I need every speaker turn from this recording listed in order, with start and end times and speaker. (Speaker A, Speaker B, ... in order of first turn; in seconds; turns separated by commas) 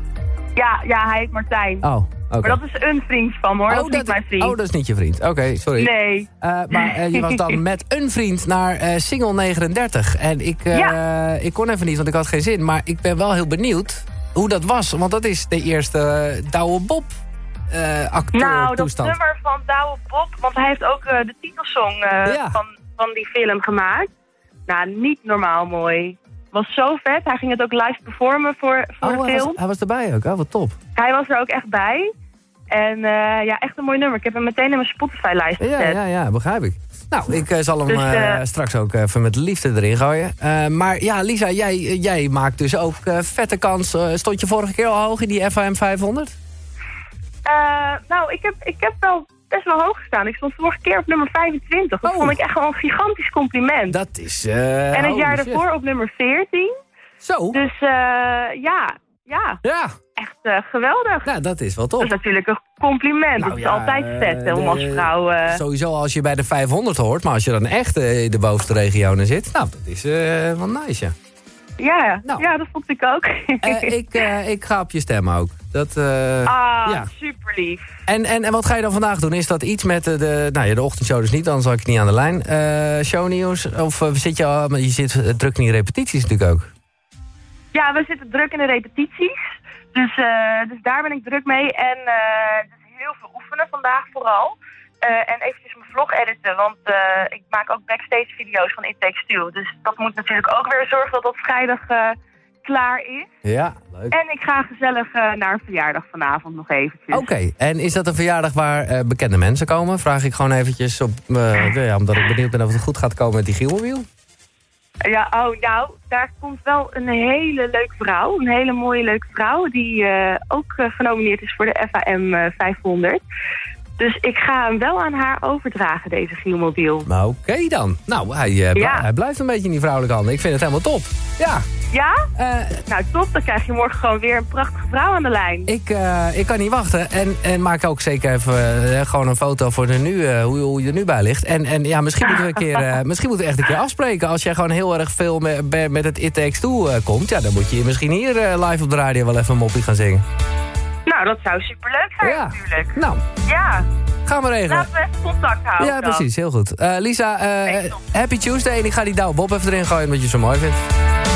Speaker A: 0.6-1.9, Speaker B: 1.8-2.6, Speaker A: 2.4-4.6, Speaker B: 3.7-17.1, Speaker A: 5.8-7.5, Speaker A: 10.7-11.0, Speaker B: 17.7-19.2, Speaker A: 18.3-24.1, Speaker B: 22.2-22.6, Speaker A: 24.7-29.6, Speaker B: 29.0-30.8, Speaker A: 31.0-32.1, Speaker A: 32.7-36.0, Speaker B: 35.6-46.4, Speaker A: 37.9-38.4, Speaker A: 47.5-54.0, Speaker B: 52.0-52.4, Speaker B: 53.9-55.6, Speaker A: 54.9-56.7, Speaker B: 57.2-57.6, Speaker A: 57.5-59.6, Speaker B: 59.6-59.9, Speaker A: 60.2-61.3, Speaker B: 61.2-62.1, Speaker A: 62.0-65.6, Speaker B: 63.4-71.1, Speaker A: 71.8-73.9, Speaker B: 73.6-77.1, Speaker A: 76.4-77.9, Speaker B: 78.1-86.7, Speaker A: 87.7-103.3, Speaker B: 103.4-104.1, Speaker A: 104.1-107.3, Speaker B: 107.1-114.1, Speaker A: 115.0-123.2, Speaker A: 124.0-127.1, Speaker B: 127.1-131.6, Speaker A: 128.8-129.1, Speaker A: 131.9-132.3, Speaker B: 132.4-132.8, Speaker A: 132.9-135.7, Speaker B: 135.7-150.2, Speaker A: 151.1-153.9, Speaker B: 152.2-153.2, Speaker B: 154.2-154.9, Speaker A: 154.7-156.3, Speaker B: 155.8-160.8, Speaker A: 157.7-158.0